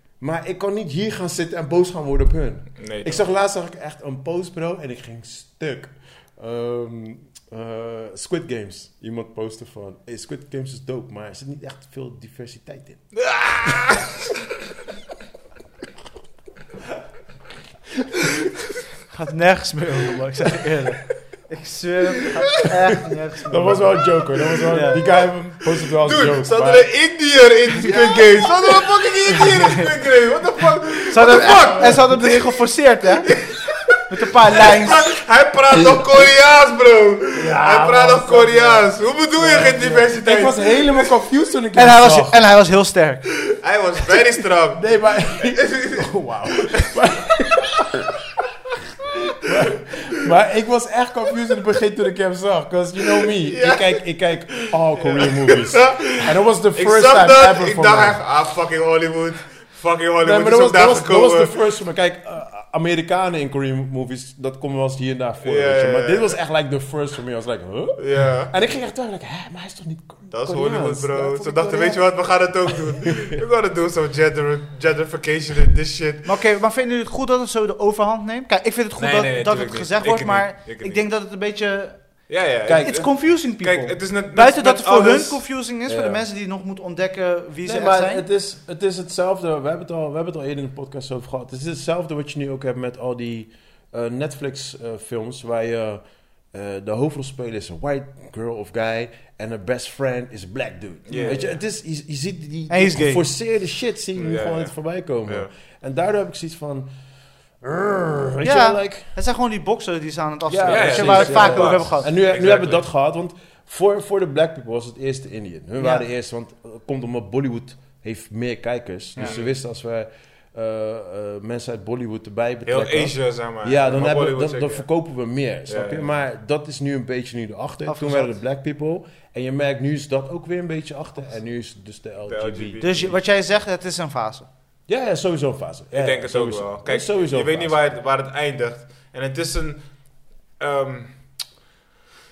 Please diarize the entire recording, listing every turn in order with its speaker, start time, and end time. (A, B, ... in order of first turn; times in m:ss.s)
0:00.2-0:13.1 A
0:02.8-0:03.2 B
0:13.1-0:14.2 B
0:19.1-0:24.0 C
0:23.5-0:26.9 A
0:24.4-0:25.2 B
0:24.7-0:25.0 C
0:25.7-0:32.4 B
0:27.8-0:28.8 A
0:29.3-0:29.9 C
0:31.1-0:33.3 C
0:33.2-0:41.1 B
0:34.1-0:35.1 C
0:37.3-0:42.4 A
0:41.7-0:43.3 C
0:43.5-0:44.9 B
0:44.7-0:48.1 A
0:45.4-0:47.0 B
0:49.4-0:58.2 A
0:53.2-1:01.5 B
1:00.2-1:13.4 A
1:05.4-1:06.4 B
1:08.0-1:08.5 B
1:10.3-1:16.4 B
1:16.2-1:28.2 C
1:19.0-1:21.1 B
1:22.3-1:25.5 B
1:22.6-1:22.9 A
1:25.8-1:26.2 A
1:27.6-1:46.9 A
1:41.1-1:41.6 B
1:41.2-1:41.5 C
1:42.7-1:43.2 C
1:44.1-1:45.5 B
1:47.6-1:49.0 A
1:48.4-1:52.1 C
1:50.5-2:12.8 A
1:50.6-1:52.8 B
1:55.8-1:56.0 C
1:59.2-1:59.6 B
2:02.6-2:04.9 B
2:05.7-2:06.1 B
2:07.8-2:08.3 C
2:12.2-2:13.2 B
2:12.8-2:14.5 C
2:14.9-2:18.0 A
2:15.9-2:21.4 B